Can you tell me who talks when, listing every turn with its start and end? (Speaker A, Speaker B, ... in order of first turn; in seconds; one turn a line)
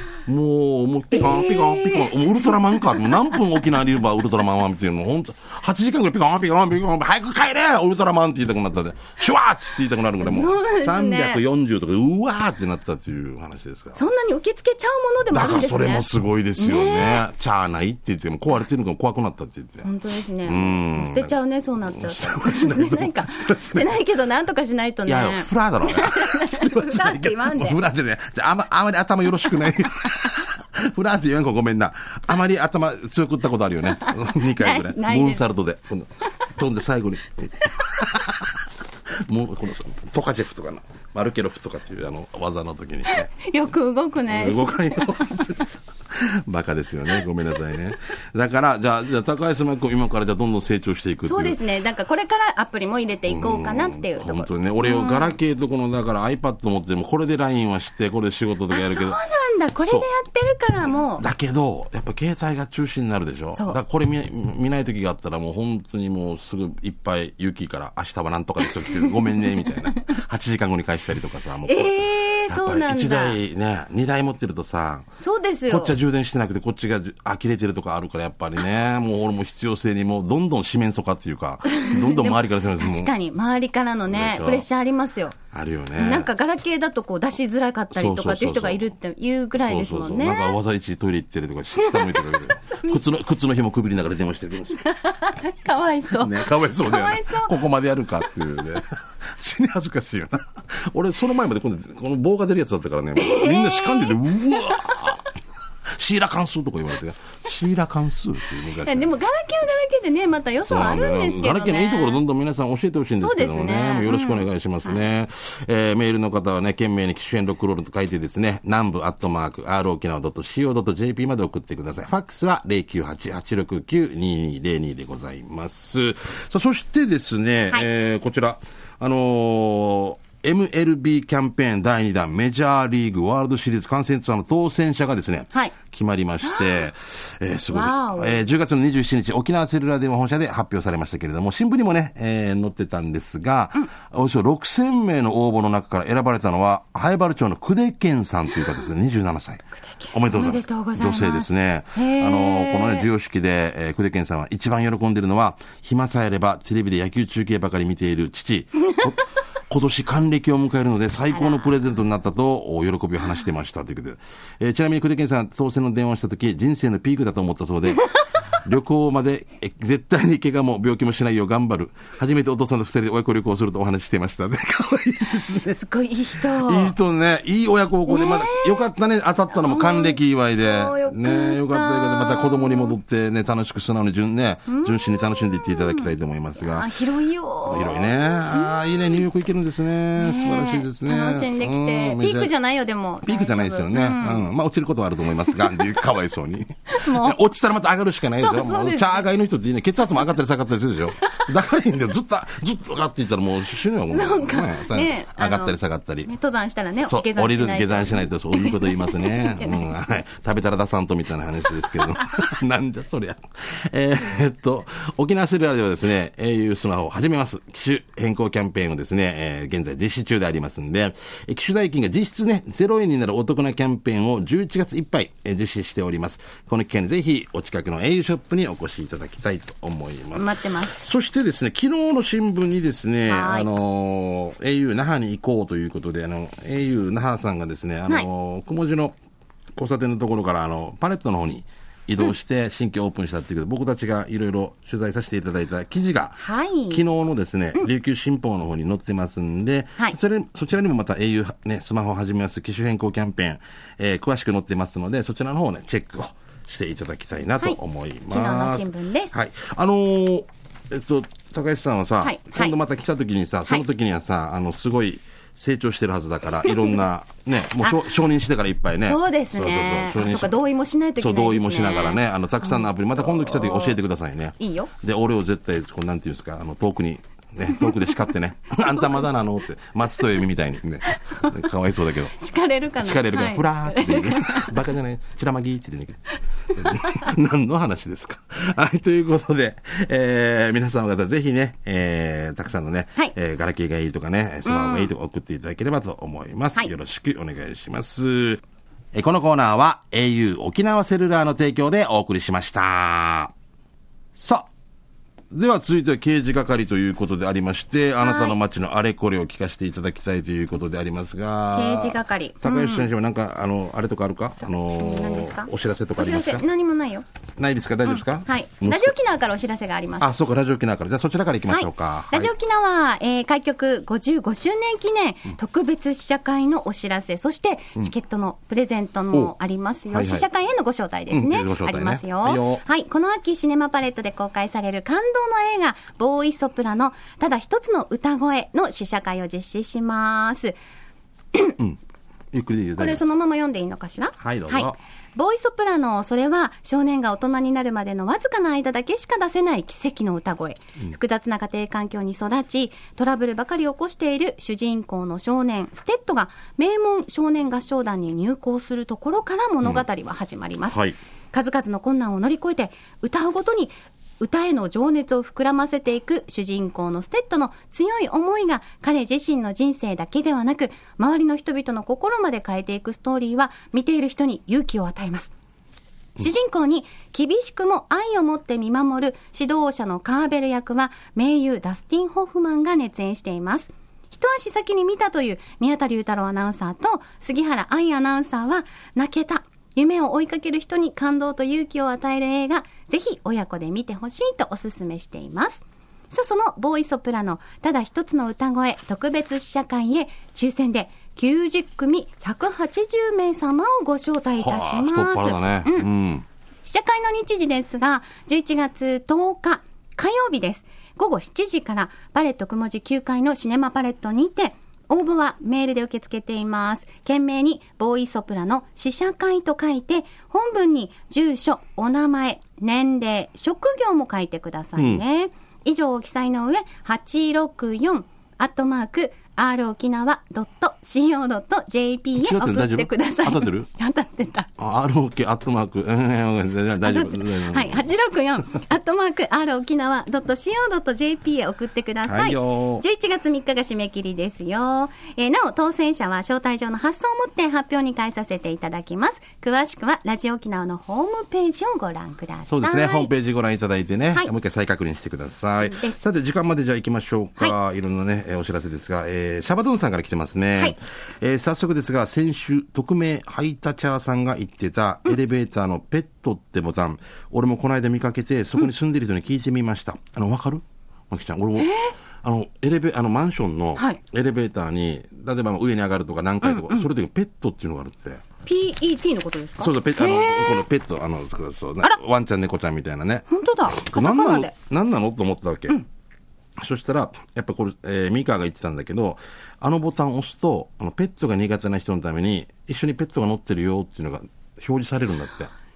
Speaker A: 0.2-14.0
Speaker B: 1.1-3.4
Speaker B: 10.2-11.4
Speaker B: 13.9-16.1
Speaker A: 15.3-19.9
Speaker B: 16.6-17.2
Speaker B: 19.8-27.8
Speaker A: 20.4-21.3
Speaker A: 21.9-23.9
Speaker A: 25.1-38.6
Speaker B: 34.0-35.4
Speaker A: 39.2-43.3
Speaker B: 43.1-45.5
Speaker A: 44.3-51.6
Speaker B: 51.2-55.3
Speaker A: 53.3-59.2
Speaker B: 58.7-61.2
Speaker A: 61.2-75.1
Speaker B: 69.1-69.5
Speaker B: 71.6-73.4
Speaker B: 75.2-75.9
Speaker A: 75.7-83.1
Speaker B: 81.7-85.4
Speaker A: 84.1-84.7
Speaker A: 85.5-86.3
Speaker B: 86.0-90.6
Speaker A: 87.9-88.8
Speaker A: 89.6-94.9
Speaker B: 91.8-93.0
Speaker B: 94.8-97.6
Speaker A: 96.1-105.3
Speaker B: 103.2-105.1
Speaker A: 105.9-109.1
Speaker B: 108.8-112.2
Speaker A: 110.7-175.8
Speaker B: 113.2-115.0
Speaker B: 136.4-136.9
Speaker B: 137.7-138.5
Speaker B: 150.0-153.1
Speaker B: 161.3-161.7
Speaker B: 175.4-176.9
Speaker A: 176.4-186.9
Speaker B: 178.1-178.9
Speaker B: 179.5-182.9
Speaker B: 184.7-189.2
Speaker A: 187.7-192.5
Speaker B: 190.2-194.5
Speaker A: 193.2-206.3
Speaker B: 196.9-197.3
Speaker B: 198.4-199.2
Speaker B: 204.1-210.1
Speaker A: 207.0-239.1
Speaker B: 230.3-230.9
Speaker B: 233.3-233.8
Speaker A: 239.8-270.6
Speaker B: 246.4-247.0
Speaker B: 258.3-259.3
Speaker B: 262.2-262.8
Speaker B: 266.7-266.9
Speaker B: 267.8-268.0
Speaker B: 269.0-274.0
Speaker A: 271.2-282.4
Speaker B: 274.6-274.9
Speaker B: 282.3-284.7
Speaker A: 283.0-298.6
Speaker B: 294.6-295.1
Speaker A: 299.1-303.5
Speaker A: 304.4-304.7
Speaker A: 305.5-316.6
Speaker B: 308.2-308.6
Speaker B: 311.7-313.1
Speaker B: 315.0-317.2
Speaker A: 317.6-319.1
Speaker B: 318.1-320.3
Speaker A: 320.2-322.5
Speaker B: 321.7-340.8
Speaker A: 330.1-330.5
Speaker A: 331.3-332.8
Speaker A: 342.5-343.2
Speaker B: 343.0-361.0
Speaker A: 344.4-345.0
Speaker A: 360.9-361.2
Speaker B: 361.5-375.5
Speaker B: 376.4-406.1
Speaker A: 404.6-406.4
Speaker B: 406.8-434.7
Speaker A: 425.0-425.2
Speaker A: 432.4-433.9
Speaker A: 434.8-438.1
Speaker B: 437.0-453.3
Speaker A: 442.2-443.1
Speaker A: 452.7-478.4
Speaker B: 455.9-456.1
Speaker B: 471.8-472.1
Speaker B: 476.6-477.1
Speaker B: 478.6-480.8
Speaker A: 479.8-486.0
Speaker B: 483.5-484.7
Speaker A: 486.8-495.7